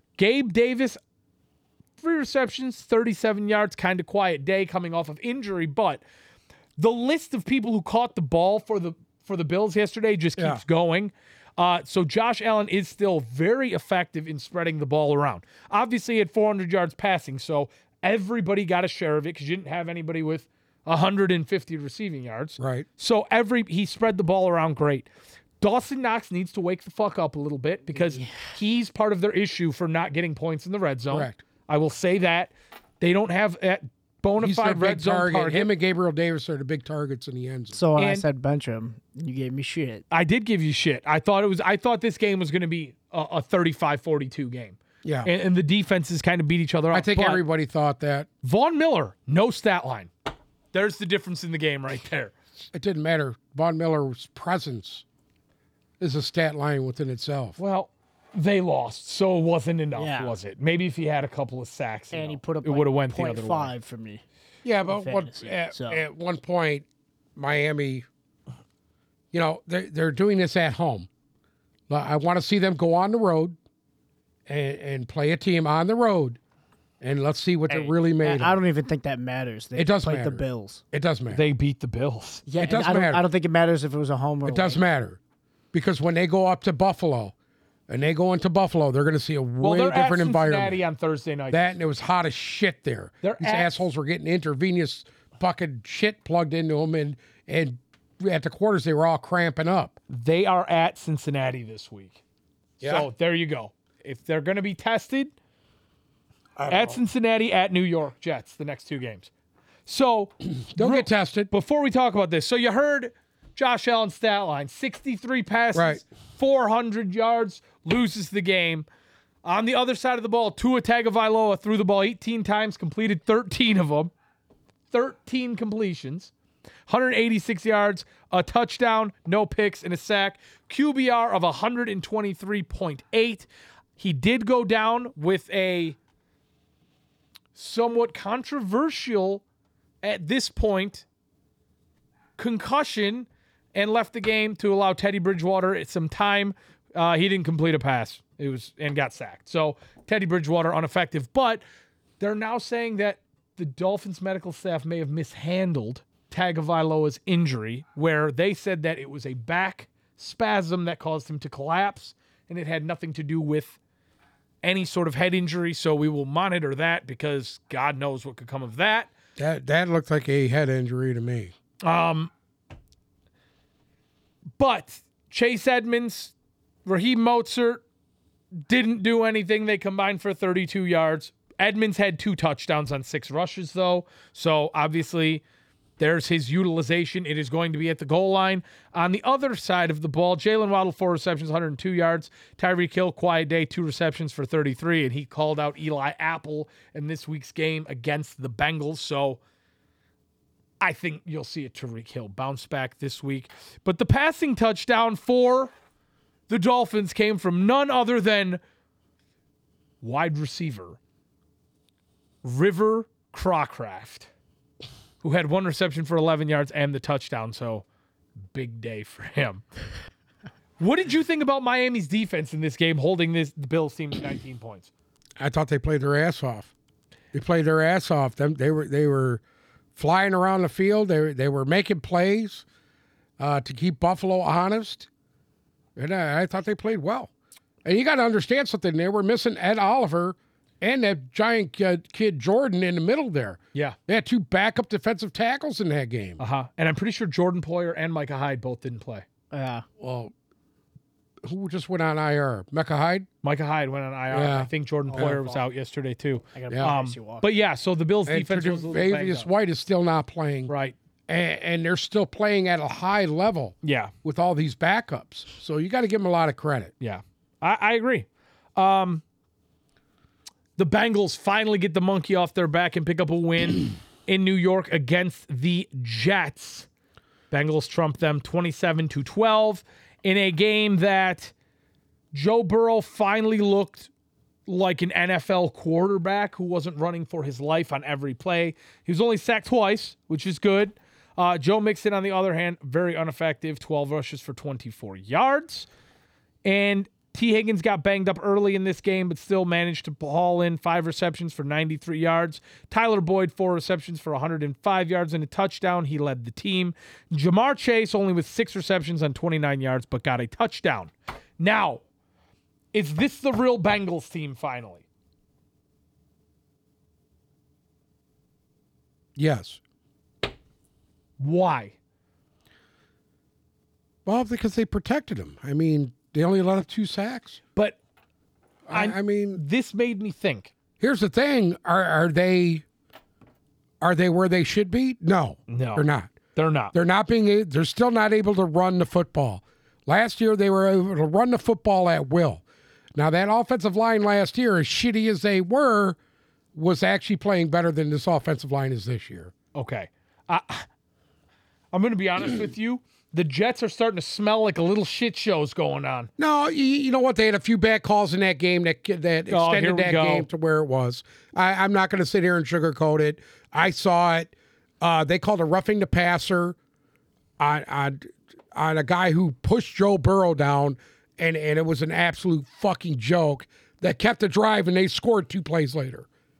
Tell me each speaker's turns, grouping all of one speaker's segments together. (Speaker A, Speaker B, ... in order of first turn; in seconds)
Speaker A: 0.2-1.0, 2.0-6.0, 6.8-25.1, 25.6-35.7, 38.0-38.2, 40.1-47.4, 48.4-50.1, 50.7-52.3, 57.6-63.7, 81.3-82.5, 89.6-91.7, 93.2-93.8, 100.1-102.2, 102.8-105.3, 106.7-109.3, 109.9-118.9, 119.4-124.1, 124.9-126.3, 126.9-133.5, 134.0-136.0, 137.6-139.4, 140.0-141.1, 142.4-151.6, 152.2-163.8, 164.6-169.1, 171.8-172.3, 174.6-176.3, 176.8-177.8, 178.7-185.4, 186.0-199.4, 200.8-205.7, 206.5-208.6, 210.0-211.0, 212.4-214.3, 215.2-217.8, 218.5-219.6, 220.8-224.9, 246.4-249.2, 253.4-259.5, 260.7-260.9, 263.8-264.1, 267.0-269.2, 270.8-276.9, 277.5-281.5, 282.3-284.1, 284.7-295.9, 296.6-312.0, 312.9-315.1, 321.4-321.9, 328.9-330.7, 335.7-336.9, 349.7-350.9, 351.9-356.3, 359.5-360.5
Speaker B: 10.4-10.6, 22.6-22.9, 31.1-31.4, 34.4-37.8, 45.0-45.3, 46.9-48.3, 52.7-55.0, 56.0-57.6, 64.7-68.0, 69.3-71.1, 71.9-73.6, 74.5-76.4, 77.0-78.6, 79.8-81.4, 82.6-83.2, 84.5-85.2, 85.7-87.3, 87.9-90.8, 91.5-100.0, 102.8-103.1, 106.6-107.0, 110.7-111.5, 115.7-116.0, 169.4-171.5, 225.4-226.7, 227.3-229.4, 230.0-232.7, 233.4-235.1, 236.0-237.3, 237.8-246.4, 250.0-250.3, 251.4-253.3, 254.3-255.4, 258.3-260.7, 261.3-266.9, 319.4-319.8, 324.3-327.6, 328.9-329.6, 331.0-332.9, 334.0-336.4, 336.9-342.6, 343.1-346.2, 346.8-349.5, 356.4-366.8, 367.6-376.3
Speaker C: 37.7-40.0, 60.0-60.4, 62.1-64.2, 64.9-66.0, 77.7-80.8, 82.5-84.8, 249.5-249.8, 255.1-255.6, 256.6-257.5